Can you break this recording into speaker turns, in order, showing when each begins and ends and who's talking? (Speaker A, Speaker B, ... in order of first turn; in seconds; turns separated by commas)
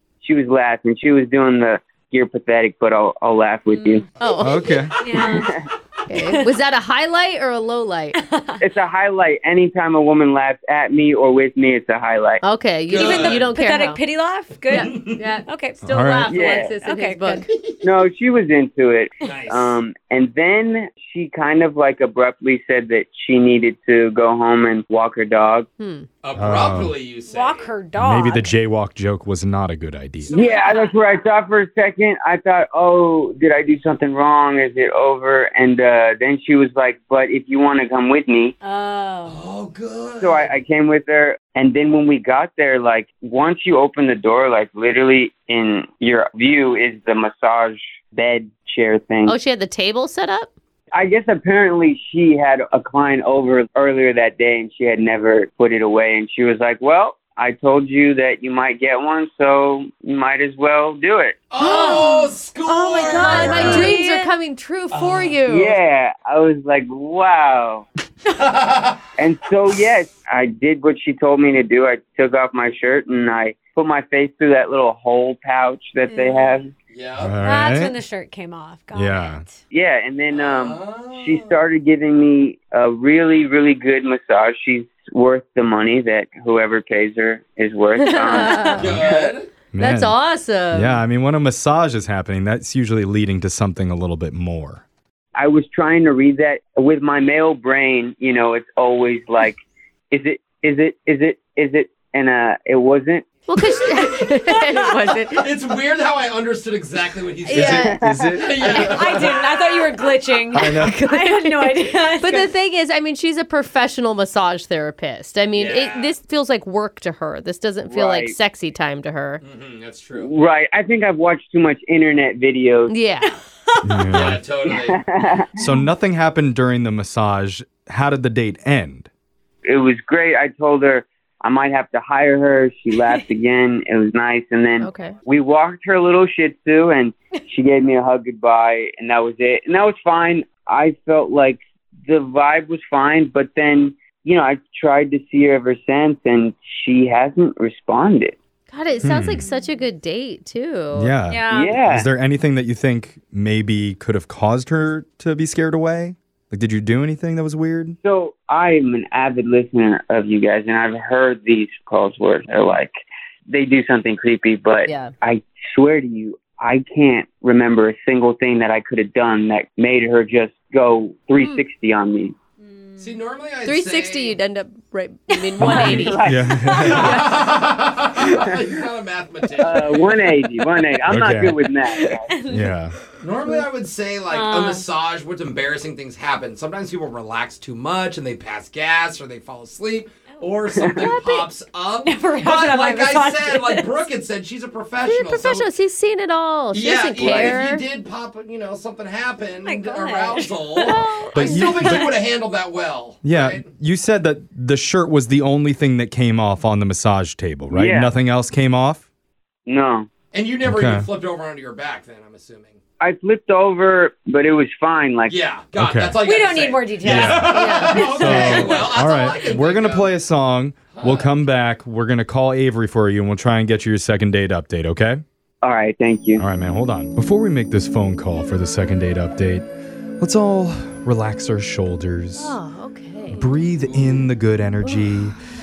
Speaker A: 0.2-4.0, Speaker B: 3.7-4.0, Speaker C: 4.2-4.7, Speaker D: 4.4-4.9, Speaker B: 5.0-5.5, Speaker A: 5.2-5.5, Speaker C: 6.1-8.2, Speaker B: 6.1-6.5, Speaker B: 8.2-8.6, Speaker A: 8.6-12.4, Speaker C: 12.4-14.0, Speaker E: 12.9-13.5, Speaker B: 12.9-17.4, Speaker E: 14.7-15.3, Speaker C: 14.7-17.5, Speaker D: 15.8-16.3, Speaker A: 16.3-16.7, Speaker A: 17.8-25.7, Speaker E: 19.2-19.8, Speaker C: 25.8-26.1, Speaker E: 26.2-27.7, Speaker D: 26.4-27.0, Speaker B: 27.3-28.5, Speaker D: 27.9-30.4, Speaker E: 30.2-30.6, Speaker A: 30.3-38.5, Speaker B: 30.4-31.0, Speaker B: 38.6-39.4, Speaker E: 39.2-40.6, Speaker A: 40.2-49.3, Speaker C: 49.2-50.5, Speaker A: 50.9-61.4, Speaker E: 61.5-64.0, Speaker B: 61.6-64.3, Speaker C: 63.0-65.8, Speaker D: 63.3-63.9, Speaker E: 64.9-65.4, Speaker A: 65.5-67.8, Speaker E: 68.4-69.0, Speaker A: 69.2-76.7, Speaker B: 76.1-76.6, Speaker E: 76.9-77.3, Speaker D: 77.2-78.0, Speaker B: 77.4-79.5, Speaker D: 78.9-79.4, Speaker A: 79.7-89.4, Speaker E: 80.3-81.6, Speaker C: 88.0-88.8, Speaker E: 88.8-89.5, Speaker D: 89.7-90.2, Speaker C: 89.8-91.0, Speaker D: 90.7-94.8, Speaker A: 95.3-99.5, Speaker A: 100.1-103.2, Speaker C: 103.5-105.5, Speaker E: 103.8-104.5, Speaker E: 105.3-107.8, Speaker C: 107.4-108.0, Speaker A: 107.5-108.7, Speaker D: 107.5-108.9, Speaker E: 108.3-109.3, Speaker C: 108.6-108.9, Speaker B: 108.7-112.5, Speaker D: 110.5-111.0, Speaker C: 111.0-119.4, Speaker E: 115.5-116.1, Speaker A: 117.9-118.3, Speaker E: 119.4-120.3, Speaker A: 120.2-122.9, Speaker C: 122.9-123.4, Speaker D: 123.8-124.4, Speaker E: 124.1-125.0, Speaker A: 124.6-125.7, Speaker D: 125.6-129.1, Speaker A: 129.6-148.3, Speaker C: 134.8-135.2, Speaker C: 148.7-151.1, Speaker D: 149.0-149.4, Speaker D: 150.9-158.0, Speaker B: 151.3-151.8, Speaker A: 151.5-152.1, Speaker A: 158.0-162.9, Speaker A: 163.5-172.3, Speaker C: 164.8-165.1, Speaker C: 171.4-171.6, Speaker B: 172.6-173.2, Speaker E: 173.0-174.4, Speaker C: 173.6-177.4, Speaker B: 175.4-177.0, Speaker D: 175.6-177.2, Speaker A: 175.6-177.1, Speaker E: 176.8-180.3, Speaker A: 178.2-178.7, Speaker A: 179.6-182.3, Speaker D: 181.1-181.6, Speaker B: 181.9-182.7, Speaker D: 182.5-182.9, Speaker E: 183.2-195.7, Speaker B: 184.3-184.8, Speaker A: 190.7-191.2, Speaker B: 191.2-191.4, Speaker B: 192.0-194.0, Speaker C: 195.1-197.8, Speaker E: 196.7-203.7, Speaker B: 199.6-202.2, Speaker D: 201.3-202.2, Speaker D: 203.2-209.0, Speaker A: 207.7-208.1, Speaker A: 209.7-210.1, Speaker E: 210.3-212.8, Speaker D: 210.6-211.1, Speaker A: 213.0-215.4, Speaker E: 215.2-220.1, Speaker D: 215.8-216.2, Speaker B: 216.2-219.0, Speaker D: 217.0-225.2, Speaker C: 217.5-218.4, Speaker E: 220.9-221.3, Speaker A: 225.6-226.4, Speaker D: 226.4-229.7, Speaker D: 230.2-232.6, Speaker C: 232.4-233.6, Speaker D: 233.3-235.4, Speaker E: 233.8-234.1